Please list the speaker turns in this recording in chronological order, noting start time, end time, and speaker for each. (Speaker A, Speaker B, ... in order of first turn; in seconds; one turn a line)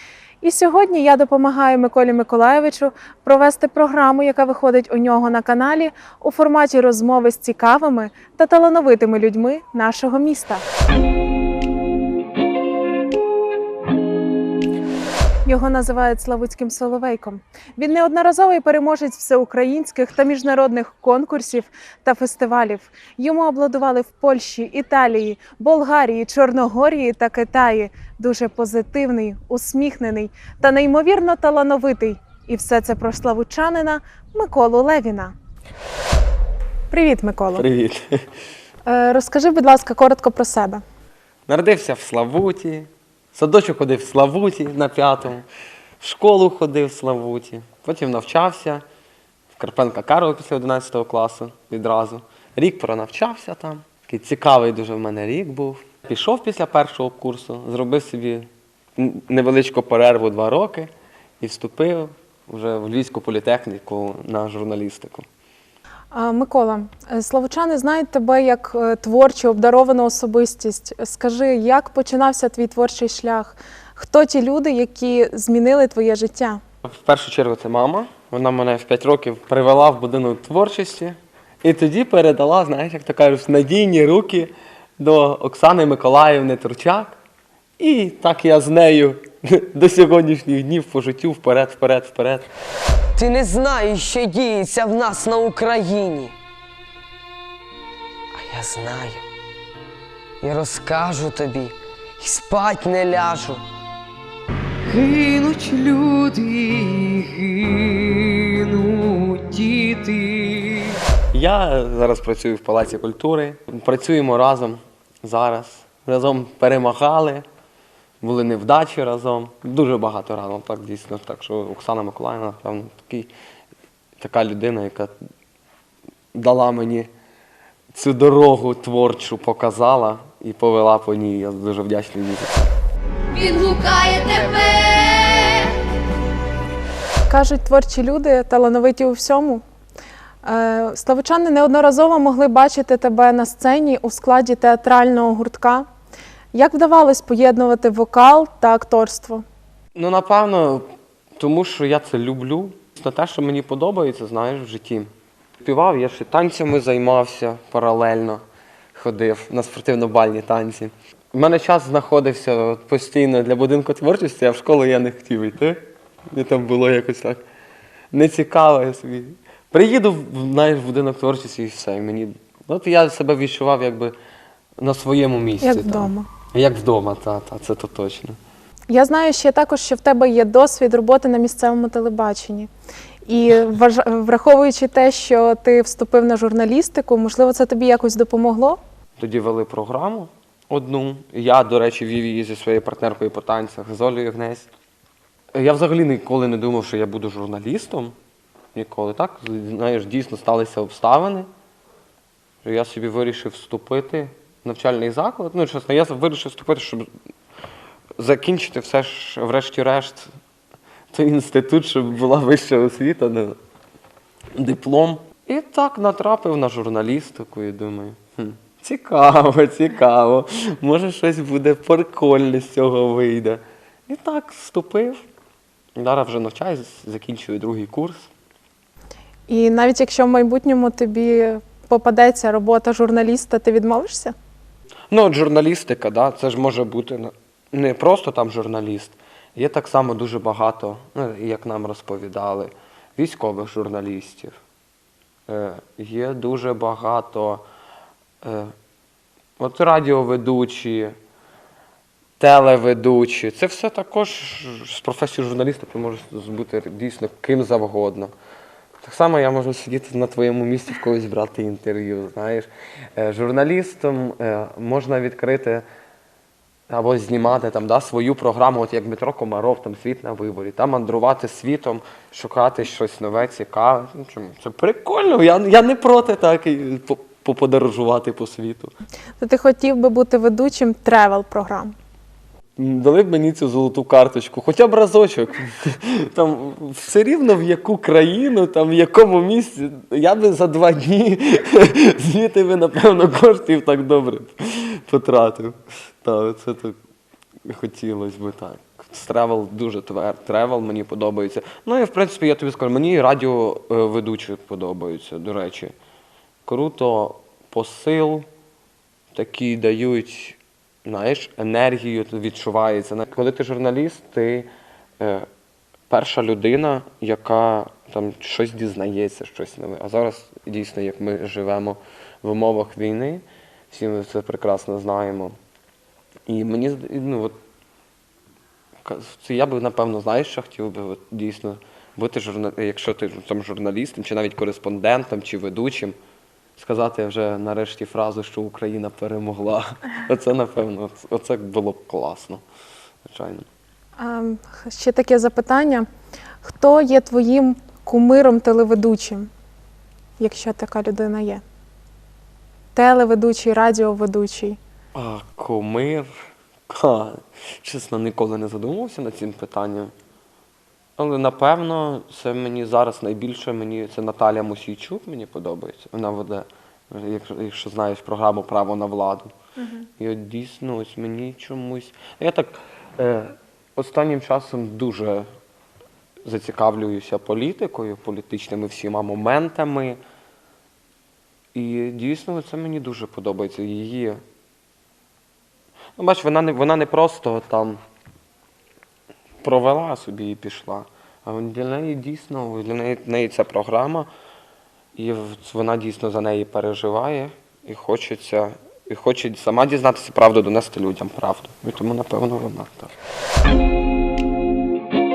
Speaker A: 0.4-10.7
Speaker A: 15.4-35.3
Speaker A: 36.9-37.6
Speaker B: 37.5-38.3
Speaker A: 38.9-40.8
Speaker B: 41.5-45.5
Speaker B: 46.0-48.8
Speaker B: 49.6-65.3
Speaker A: 66.1-76.6
Speaker B: 76.8-87.2
Speaker B: 87.8-92.5
Speaker C: 93.2-96.4
Speaker C: 98.3-99.2
Speaker C: 100.4-103.6
Speaker B: 104.9-107.6
Speaker C: 106.9-107.2
Speaker C: 109.0-110.9
Speaker B: 111.3-117.5
Speaker B: 118.2-123.3
Speaker B: 124.2-125.2
Speaker B: 126.3-127.1
Speaker B: 127.9-132.7
Speaker D: 133.3-135.8
Speaker A: 137.3-139.6
Speaker A: 140.4-145.9
Speaker A: 146.5-149.4
Speaker B: 149.9-150.8
Speaker B: 151.4-155.1
Speaker B: 155.6-158.4
Speaker B: 158.9-167.4
Speaker B: 168.1-174.2
Speaker B: 174.8-178.4
Speaker A: 175.6-176.3
Speaker A: 178.9-182.7
Speaker A: 183.3-188.8
Speaker B: 189.2-194.7
Speaker B: 195.5-198.2
Speaker B: 198.7-201.5
Speaker B: 202.6-207.1
Speaker B: 208.2-210.3
Speaker B: 211.1-213.6
Speaker B: 214.6-225.2
Speaker B: 226.0-228.3
Speaker A: 229.5-234.3
Speaker B: 235.1-244.6
Speaker B: 245.5-247.6
Speaker B: 248.4-248.7
Speaker B: 249.6-251.2
Speaker B: 252.4-258.3
Speaker B: 259.0-265.8
Speaker B: 266.9-278.9
Speaker A: 279.4-281.9
Speaker B: 282.8-297.0
Speaker B: 297.7-305.9
Speaker B: 306.7-308.5
Speaker B: 309.3-314.7
Speaker B: 315.2-315.5
Speaker B: 316.1-325.6
Speaker B: 326.5-327.6
Speaker B: 329.0-336.2
Speaker B: 336.8-342.6
Speaker B: 343.2-343.7
Speaker A: 344.2-346.1
Speaker A: 346.6-349.5
Speaker A: 350.4-351.6
Speaker A: 352.9-354.8
Speaker B: 355.1-356.3
Speaker B: 356.9-360.1
Speaker B: 361.2-369.5
Speaker A: 369.8-370.1
Speaker B: 370.2-375.5
Speaker B: 376.4-380.2
Speaker B: 381.7-384.4
Speaker B: 386.2-388.0
Speaker B: 389.6-394.3
Speaker B: 395.1-403.2